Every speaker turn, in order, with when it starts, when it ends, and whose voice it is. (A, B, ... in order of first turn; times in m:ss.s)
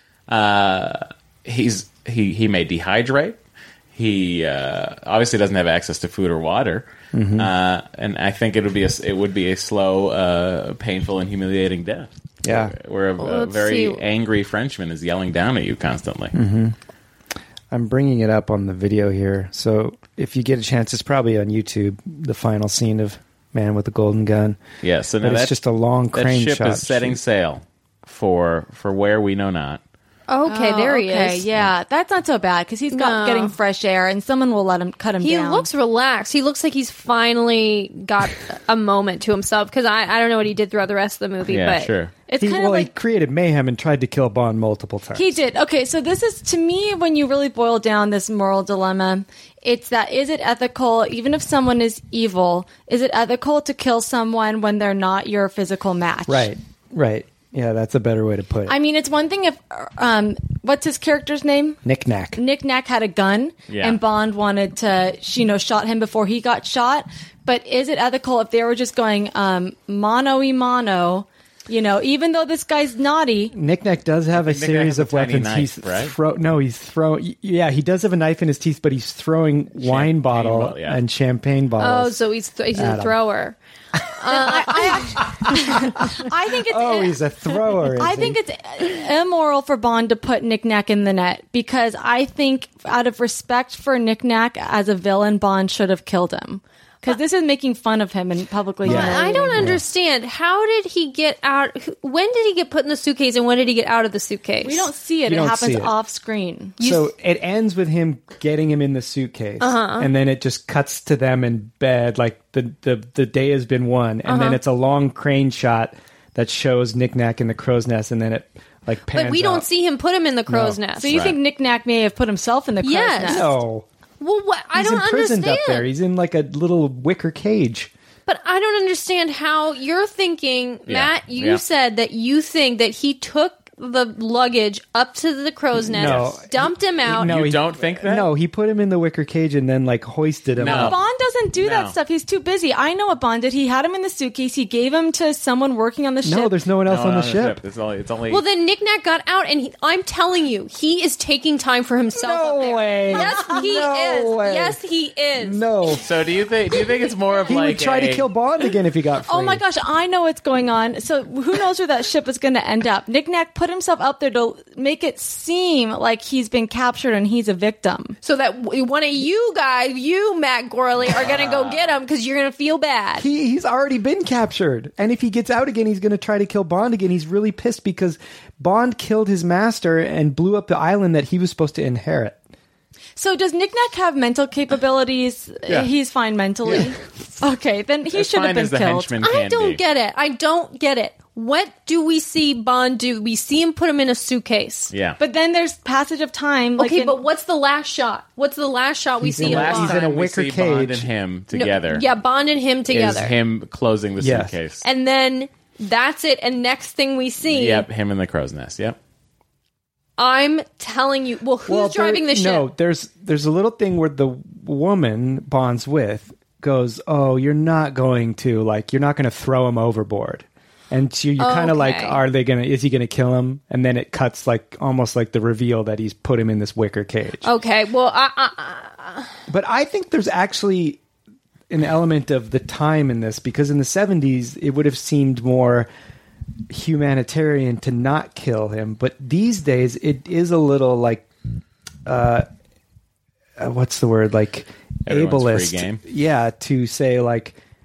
0:00.3-0:03.4 A
0:03.9-0:16.4 A
0:07.1-0:07.5 B
0:12.4-0:12.7 B
0:13.2-0:14.0 C
0:16.3-0:16.8 B
0:17.7-0:24.6 B
0:24.8-0:25.6 A
0:25.2-0:27.2 B
0:26.1-0:29.8 A
0:30.3-0:31.4 C
0:30.4-0:35.7 D
0:32.9-0:33.6 C
0:35.2-0:41.9 C
0:41.4-0:42.1 A
0:42.3-0:42.9 D
0:42.4-0:45.4 B
0:45.1-0:56.5 D
0:56.3-0:58.8 B
0:58.7-1:01.8 D
1:01.8-1:02.4 B
1:02.4-1:13.5 D
1:03.7-1:04.0 A
1:13.5-1:22.2 B
1:14.3-1:16.1 A
1:19.8-1:21.0 A
1:21.8-1:23.6 C
1:22.7-1:23.2 B
1:24.1-1:25.2 C
1:24.3-1:26.0 B
1:24.3-1:27.2 D
1:26.7-1:28.4 B
1:27.8-1:39.7 D
1:38.8-1:39.8 B
1:38.8-1:44.9 C
1:44.6-1:46.8 D
1:45.3-1:45.9 B
1:46.8-1:47.1 C
1:46.8-1:59.7 B
1:49.6-1:50.1 C
1:54.3-1:54.6 C
1:59.1-2:01.2 C
2:00.5-2:00.8 B
2:01.0-2:03.5 D
2:01.1-2:01.4 A
2:02.8-2:03.6 C
2:03.3-2:03.8 B
2:04.2-2:05.9 C
2:04.7-2:07.9 B
2:08.3-2:17.4 C
2:10.9-2:11.6 A
2:15.8-2:21.0 B
2:16.0-2:16.3 A
2:17.2-2:18.3 A
2:20.6-2:21.0 A
2:20.6-2:26.5 D
2:21.6-2:22.0 A
2:26.2-2:27.6 B
2:26.8-2:28.4 A
2:28.3-2:35.7 C
2:32.1-2:34.8 B
2:35.4-2:36.0 B
2:36.0-2:38.2 A
2:37.5-2:39.6 B
2:39.3-2:48.2 D
2:48.2-2:53.3 C
2:51.0-2:52.0 A
2:53.2-3:02.4 B
3:03.2-3:09.1 D
3:06.6-3:06.9 A
3:08.1-3:09.8 A
3:09.2-3:14.9 C
3:14.9-3:15.2 A
3:15.2-3:17.2 D
3:16.8-3:20.0 C
3:19.2-3:21.1 B
3:19.4-3:22.1 A
3:21.5-3:23.3 C
3:22.9-3:24.8 A
3:24.2-3:24.6 B
3:24.8-3:27.8 C
3:27.5-3:29.0 A
3:30.2-3:32.7 C
3:31.7-3:47.5 B
3:41.4-3:42.2 C
3:47.4-3:49.3 C
3:49.5-3:51.0 B
3:51.7-3:55.9 B
3:56.7-4:01.3 B
4:02.1-4:02.5 B
4:03.6-4:07.6 B
4:05.1-4:06.0 A